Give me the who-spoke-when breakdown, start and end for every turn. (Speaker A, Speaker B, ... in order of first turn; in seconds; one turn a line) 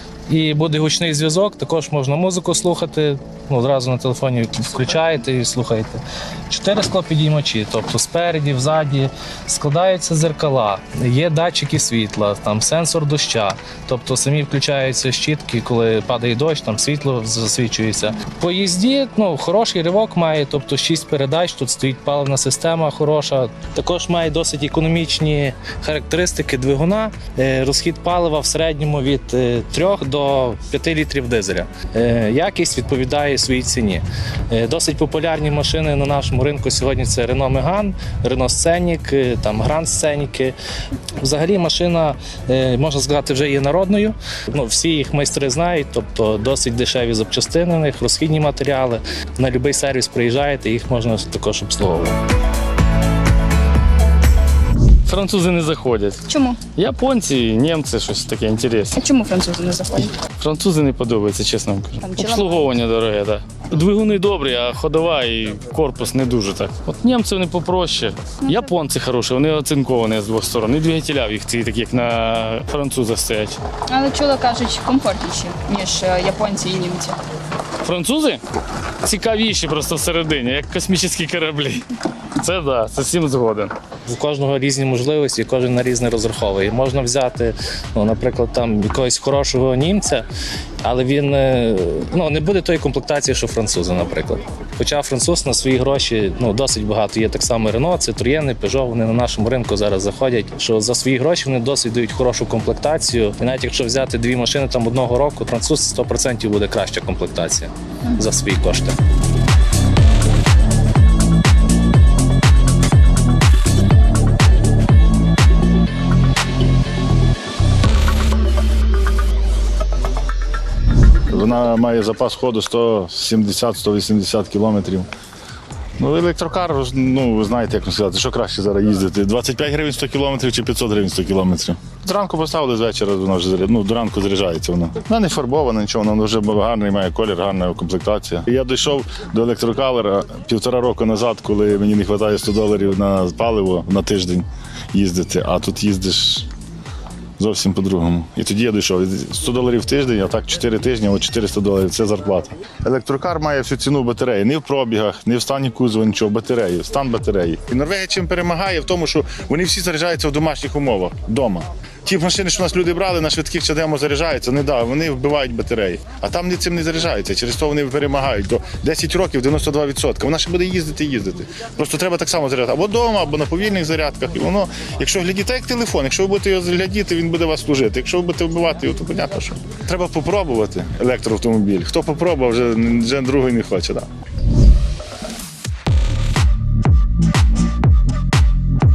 Speaker A: 0.3-40.5
Speaker A: 41.2-52.1
Speaker B: 55.0-56.2
Speaker C: 56.3-56.6
Speaker B: 56.8-58.9
Speaker C: 59.0-60.1
Speaker B: 60.4-73.6
Speaker C: 62.0-62.8
Speaker C: 68.4-68.7
Speaker C: 73.9-77.2
Speaker B: 77.8-78.4
Speaker B: 79.0-83.7
Speaker A: 84.1-90.3
Speaker A: 90.8-109.0
Speaker D: 121.3-125.1
Speaker D: 126.0-146.5
Speaker D: 147.4-184.1